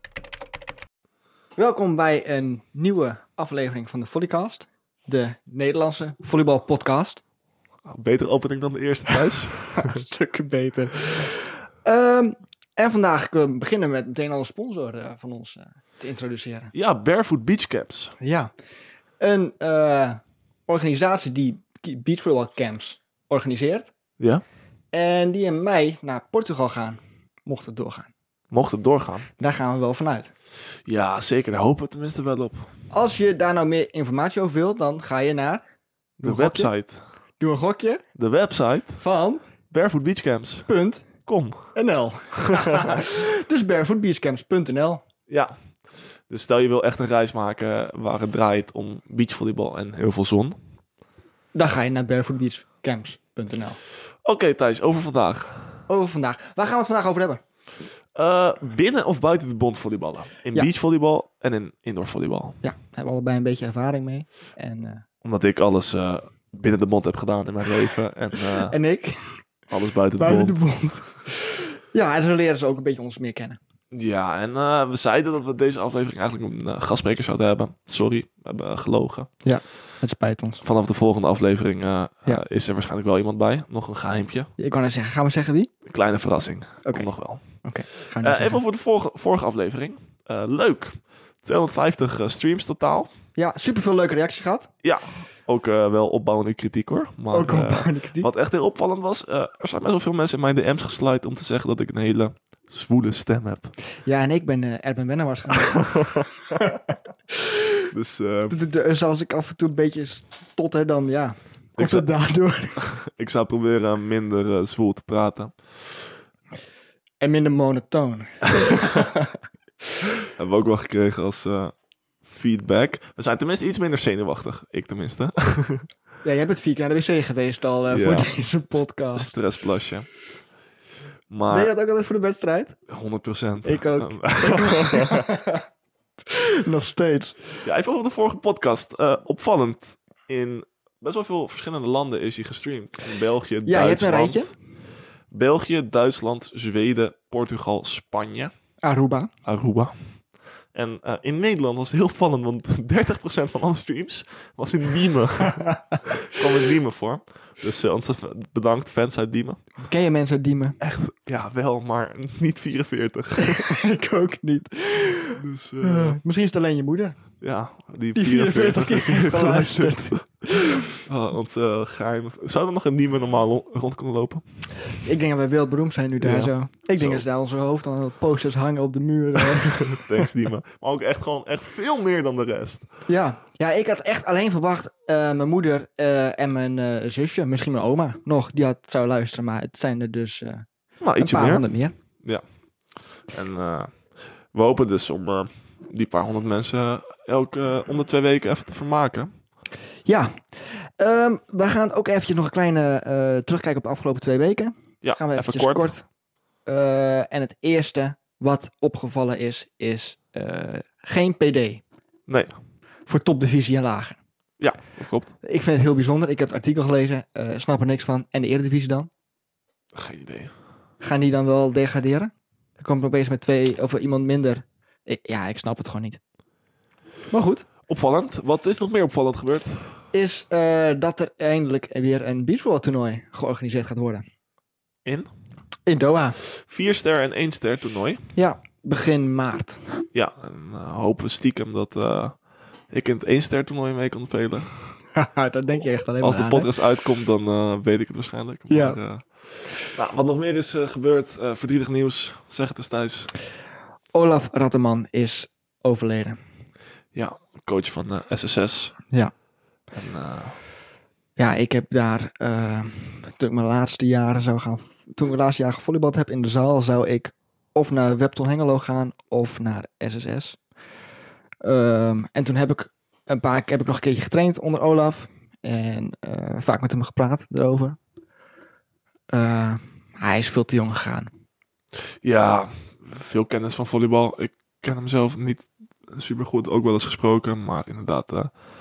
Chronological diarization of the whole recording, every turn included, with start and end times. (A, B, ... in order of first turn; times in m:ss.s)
0:01.6-0:07.2 A
0:07.8-0:10.0 B
0:09.7-0:16.7 A
0:16.7-0:18.1 B
0:18.2-0:18.5 A
0:19.2-0:23.9 A
0:24.2-0:24.4 B
0:24.9-0:28.1 A
0:28.5-0:29.3 B
0:29.4-0:30.3 A
0:30.9-0:32.7 B
0:32.9-0:35.6 A
0:36.2-0:37.0 B
0:36.2-0:36.7 A
0:37.4-0:38.0 A
0:38.2-0:39.0 B
0:39.0-0:39.4 A
0:39.7-0:40.7 B
0:40.7-0:41.1 A
0:41.3-0:41.8 B
0:41.7-0:45.0 A
0:42.5-0:43.0 B
0:45.3-0:45.6 B
0:46.3-0:50.6 B
0:51.5-0:53.8 A
0:54.2-0:55.8 B
0:55.9-0:57.4 A
0:58.1-1:02.6 B
1:02.6-1:05.0 A
1:05.2-1:08.8 B
1:08.7-1:09.4 A
1:09.7-1:10.6 B
1:10.2-1:13.6 A
1:13.9-1:19.3 B
1:19.4-1:20.6 A
1:20.6-1:24.5 B
1:24.6-1:25.7 A
1:25.8-1:27.4 B
1:27.6-1:28.6 A
1:28.1-1:33.1 B
1:33.4-1:34.7 A
1:34.8-1:43.7 B
1:37.3-1:38.3 A
1:44.0-1:46.8 A
1:45.5-1:46.2 B
1:47.9-1:48.6 B
1:48.5-1:52.9 A
1:51.8-1:52.1 B
1:52.8-1:56.1 B
1:57.2-1:59.4 A
2:00.4-2:01.7 B
2:02.2-2:05.9 B
2:06.2-2:09.3 A
2:07.9-2:10.1 B
2:11.3-2:11.7 B
2:11.5-2:12.8 A
2:12.9-2:15.2 B
2:13.6-2:15.6 A
2:16.3-2:17.6 A
2:17.6-2:24.5 B
2:23.7-2:24.5 A
2:25.3-2:28.5 B
2:28.8-2:29.3 A
2:29.4-2:30.2 B
2:30.7-2:39.6 B
2:35.5-2:35.8 A
2:39.8-2:40.8 A
2:40.8-2:43.7 B
2:43.5-2:47.2 A
2:45.4-2:46.2 B
2:47.4-2:54.9 B
2:48.1-2:50.8 A
2:55.0-3:00.1 A
2:56.2-2:57.2 B
2:59.8-3:02.9 B
3:03.1-3:10.7 A
3:11.0-3:11.7 B
3:11.2-3:11.9 A
3:13.3-3:19.3 B
3:20.0-3:26.0 A
3:25.0-3:25.9 B
3:26.7-3:31.8 A
3:32.3-3:32.5 B
3:33.1-3:34.2 A
3:34.6-3:35.3 B
3:35.4-3:39.1 A
3:39.9-3:40.5 B
3:41.0-3:46.2 A
3:47.3-3:47.7 A
3:47.9-3:50.0 B
3:50.1-3:54.2 A
3:55.0-3:55.3 B
3:55.8-3:56.4 A
3:56.6-3:58.3 B
3:58.3-3:59.8 A
4:00.1-4:02.4 B
4:02.9-4:05.0 B
4:05.1-4:06.7 A
4:06.2-4:13.3 B
4:08.7-4:09.0 A
4:14.1-4:16.4 A
4:17.1-4:19.0 B
4:19.9-4:20.6 B
4:21.4-4:30.6 A
4:31.6-4:38.0 A
4:39.3-4:41.3 A
4:42.2-4:48.5 B